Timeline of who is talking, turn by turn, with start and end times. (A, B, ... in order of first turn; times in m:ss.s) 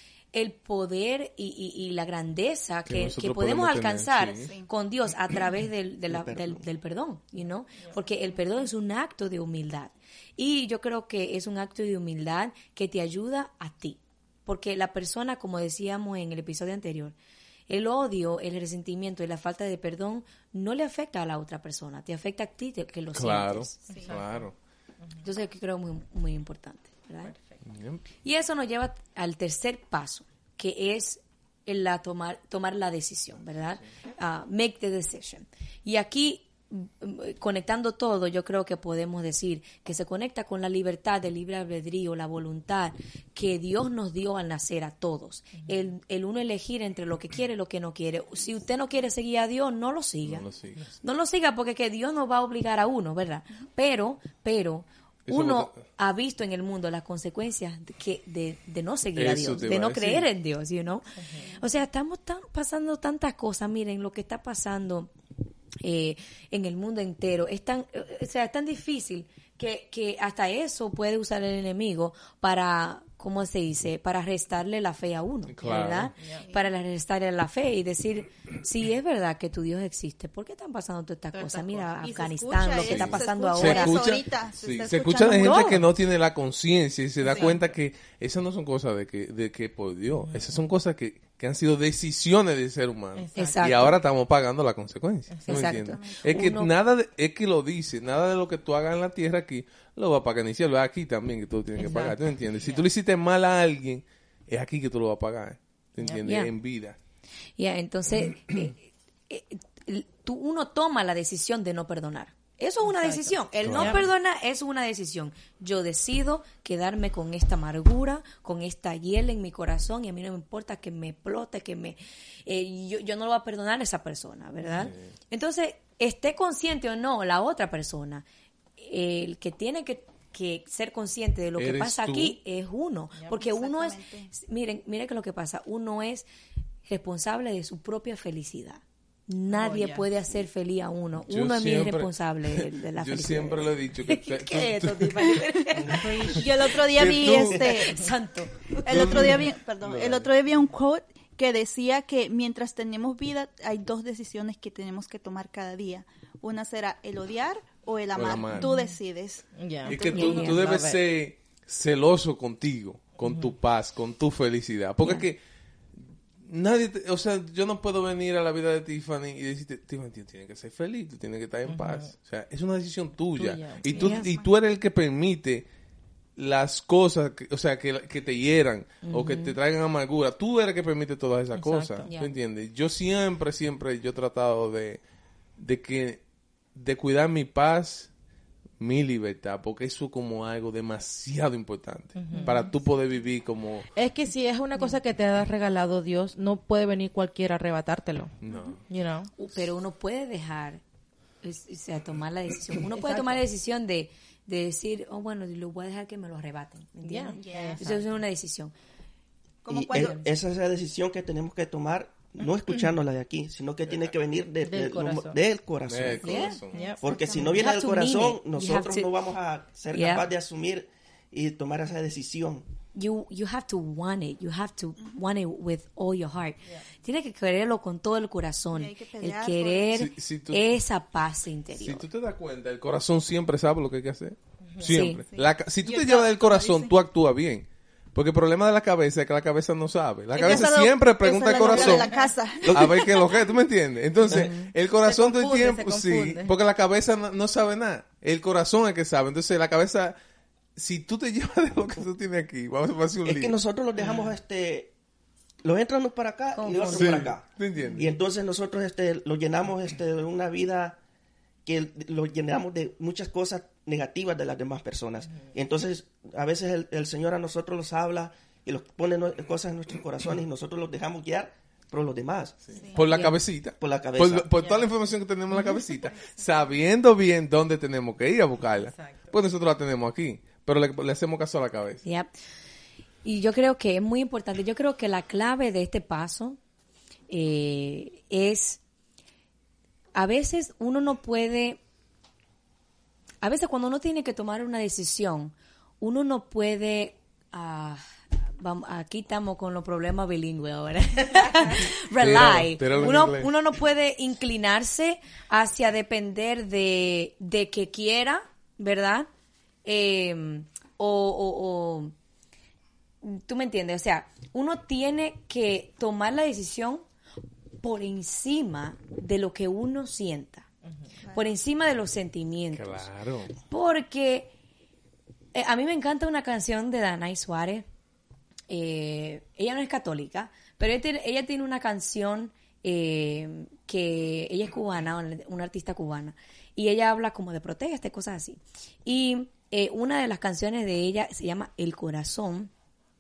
0:00.3-0:17.2 A
0:02.9-0:04.5 B
0:04.4-0:04.7 C
0:06.1-0:06.6 D
0:17.7-0:23.8 A
0:23.1-0:24.5 B
0:23.9-0:24.2 C
0:24.0-0:24.2 E
0:25.2-0:27.4 A
0:27.2-0:27.6 E
0:27.6-0:28.0 B
0:28.2-0:50.5 A
0:45.6-0:45.9 E
0:50.2-0:51.0 B
0:51.0-1:05.1 A
0:55.3-0:55.8 B
0:59.2-1:00.3 B
1:01.4-1:01.7 C
1:05.8-1:24.1 A
1:15.5-1:16.1 B
1:16.2-1:16.5 E
1:16.3-1:16.7 C
1:21.3-1:22.7 E
1:22.0-1:25.7 C
1:22.8-1:47.0 B
1:25.4-1:25.8 A
1:27.3-1:27.6 E
1:27.3-1:27.5 C
1:30.2-1:30.6 E
1:33.2-1:33.9 E
1:33.4-1:33.9 A
1:35.3-1:35.7 E
1:35.5-1:36.7 A
1:35.6-1:36.3 C
1:41.8-1:42.8 E
1:46.2-1:46.5 A
1:47.6-2:08.2 A
1:52.8-1:54.1 E
1:53.6-1:54.0 B
2:04.7-2:05.1 B
2:08.8-2:16.3 A
2:11.6-2:12.4 B
2:13.3-2:14.3 C
2:16.9-2:26.5 A
2:19.5-2:20.1 E
2:21.2-2:27.9 B
2:25.3-2:28.1 C
2:25.9-2:26.4 E
2:27.0-2:29.3 A
2:28.9-2:40.7 C
2:28.9-2:30.3 B
2:38.2-2:38.7 B
2:38.6-2:38.9 E
2:39.6-2:41.0 E
2:39.8-2:45.4 B
2:40.1-2:40.6 A
2:43.2-2:43.5 E
2:45.0-2:45.3 A
2:46.4-2:55.7 B
2:51.7-2:52.1 E
2:53.4-2:54.1 E
2:53.9-2:54.5 C
2:54.0-2:54.3 A
2:56.4-3:05.0 B
2:59.0-2:59.6 A
3:01.5-3:02.1 E
3:02.0-3:02.3 A
3:05.6-3:06.2 B
3:06.8-3:08.1 B
3:08.8-3:13.9 B
3:12.2-3:12.7 E
3:14.0-3:18.3 E
3:18.4-3:18.8 B
3:18.9-3:19.3 E
3:19.4-3:20.8 A
3:21.4-3:28.7 A
3:22.9-3:23.4 E
3:27.0-3:28.1 E
3:27.4-3:27.8 C
3:29.6-3:30.3 C
3:29.7-3:42.6 D
3:29.9-3:30.2 A
3:34.6-3:35.4 E
3:35.9-3:36.8 B
3:36.2-3:36.6 A
3:36.3-3:37.6 C
3:36.7-3:37.4 E
3:37.5-3:39.1 A
3:39.9-3:40.3 A
3:42.9-3:52.1 A
3:48.7-3:50.0 C
3:49.9-3:50.7 B
3:51.8-4:02.1 B
3:54.8-3:55.2 A
3:55.3-3:57.0 C
4:00.3-4:03.4 C
4:01.8-4:02.3 E
4:02.6-4:03.0 D
4:02.7-4:10.2 B
4:04.3-4:04.7 A
4:05.0-4:06.5 E
4:10.8-4:13.6 B
4:13.2-4:14.9 D
4:15.6-4:21.0 D
4:16.6-4:17.3 A
4:16.9-4:18.0 B
4:21.7-4:32.6 D
4:32.7-4:42.0 B
4:32.7-4:33.0 C
4:33.0-4:33.4 A
4:33.8-4:34.5 D
4:34.6-4:34.8 C
4:35.9-4:36.7 C
4:38.7-4:39.3 E
4:42.0-4:42.3 A
4:43.2-4:46.6 A
4:47.3-4:48.8 A
4:50.2-4:51.8 A
4:53.4-4:58.0 A
4:58.6-5:09.3 A
5:02.2-5:03.5 B
5:09.8-5:12.1 A
5:13.2-5:17.0 A
5:17.8-5:20.7 A
5:21.2-5:21.5 C
5:21.3-5:23.1 A
5:22.7-5:23.5 B
5:23.6-5:24.5 A
5:25.6-5:27.9 A
5:28.7-5:42.7 A